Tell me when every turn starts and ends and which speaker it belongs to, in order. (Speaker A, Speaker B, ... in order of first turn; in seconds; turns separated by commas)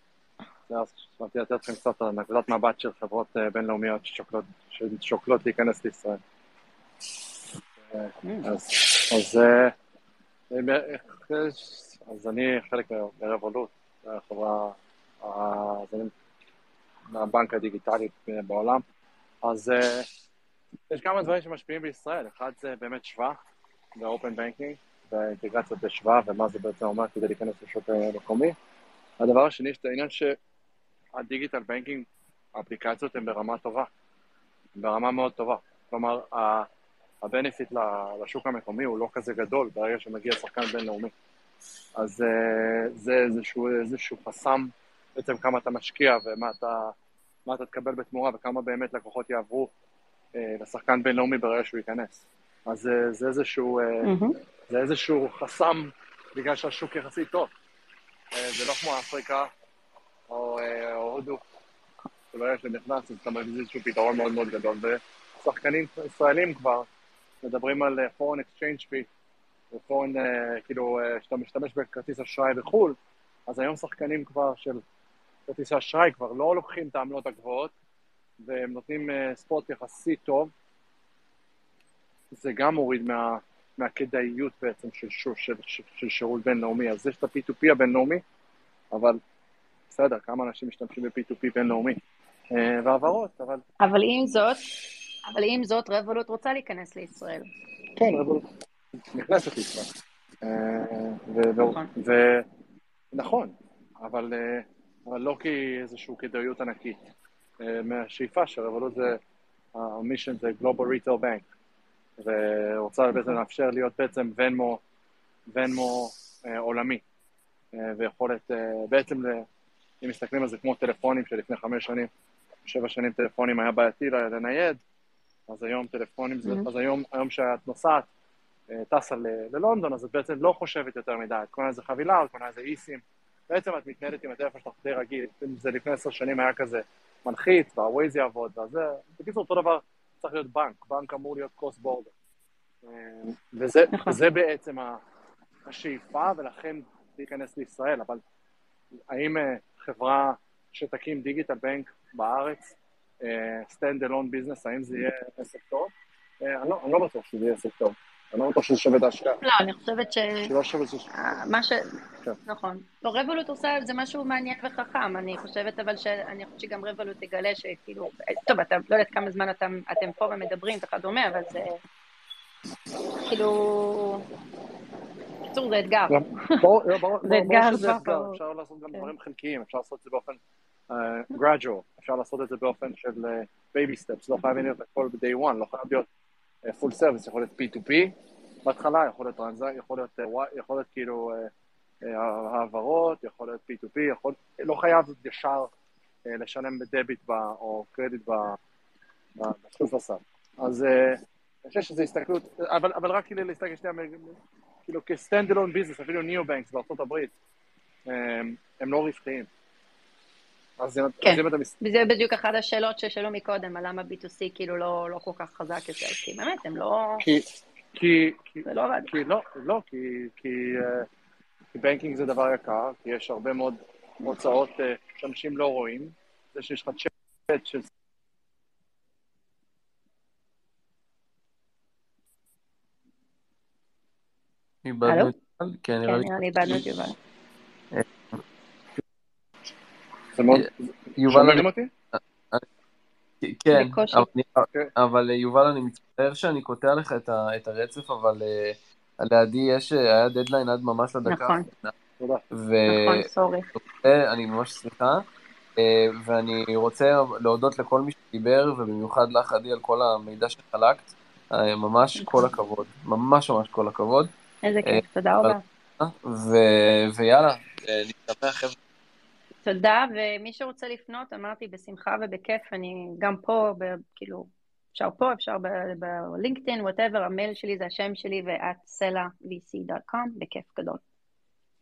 Speaker A: 0.7-6.2, Speaker A: 7.8-9.7, Speaker B: 8.2-8.5, Speaker A: 10.5-16.1, Speaker A: 17.1-18.8, Speaker A: 19.4-20.1, Speaker A: 20.9-23.4, Speaker A: 23.9-28.6, Speaker A: 29.2-30.4, Speaker A: 31.1-33.9, Speaker A: 34.8-36.7, Speaker A: 37.2-41.1, Speaker A: 42.0-46.9, Speaker A: 47.5-49.7, Speaker A: 50.3-54.1, Speaker B: 54.0-54.4, Speaker A: 54.7-57.5, Speaker A: 58.3-59.5, Speaker A: 60.3-61.4, Speaker A: 62.3-66.9, Speaker A: 67.4-69.1, Speaker A: 69.7-74.8, Speaker A: 75.5-77.7, Speaker A: 78.4-80.5, Speaker A: 82.3-88.2, Speaker A: 88.9-89.2, Speaker A: 89.9-92.0, Speaker A: 92.5-93.6, Speaker B: 93.8-94.6, Speaker B: 95.2-97.5, Speaker A: 98.0-98.5, Speaker A: 99.1-99.9, Speaker A: 100.4-102.4, Speaker B: 101.6-101.9, Speaker A: 103.1-107.0, Speaker A: 107.6-109.2, Speaker A: 109.7-111.4, Speaker A: 112.2-114.8, Speaker A: 115.5-117.0, Speaker A: 117.7-119.5, Speaker A: 120.0-122.1, Speaker A: 122.6-124.8, Speaker A: 125.5-128.1, Speaker A: 128.7-142.1, Speaker A: 142.8-145.0, Speaker B: 143.9-144.2, Speaker A: 145.6-148.2, Speaker A: 149.1-159.4, Speaker B: 159.4-160.5, Speaker A: 160.4-161.1, Speaker B: 161.1-161.9, Speaker B: 162.4-171.8, Speaker B: 173.2-174.2, Speaker B: 175.5-176.6, Speaker A: 176.1-186.1, Speaker B: 177.2-178.4, Speaker A: 186.6-188.1, Speaker A: 188.6-191.5, Speaker A: 192.0-195.7, Speaker A: 196.2-198.6, Speaker A: 199.4-207.3, Speaker A: 208.1-209.5, Speaker A: 210.8-211.7, Speaker B: 211.2-217.2, Speaker A: 217.2-221.1, Speaker B: 218.6-219.1, Speaker A: 221.7-227.9, Speaker C: 234.8-236.9, Speaker B: 235.1-235.3, Speaker B: 236.0-237.2, Speaker C: 237.9-238.4, Speaker A: 240.3-241.9, Speaker C: 240.5-242.7, Speaker C: 243.4-251.9, Speaker B: 243.7-244.3, Speaker B: 251.3-251.7, Speaker A: 252.2-252.4, Speaker C: 252.5-255.2, Speaker B: 252.9-253.7, Speaker C: 255.8-264.3, Speaker B: 262.2-262.5, Speaker B: 264.6-265.6, Speaker C: 264.8-268.8, Speaker B: 269.6-281.0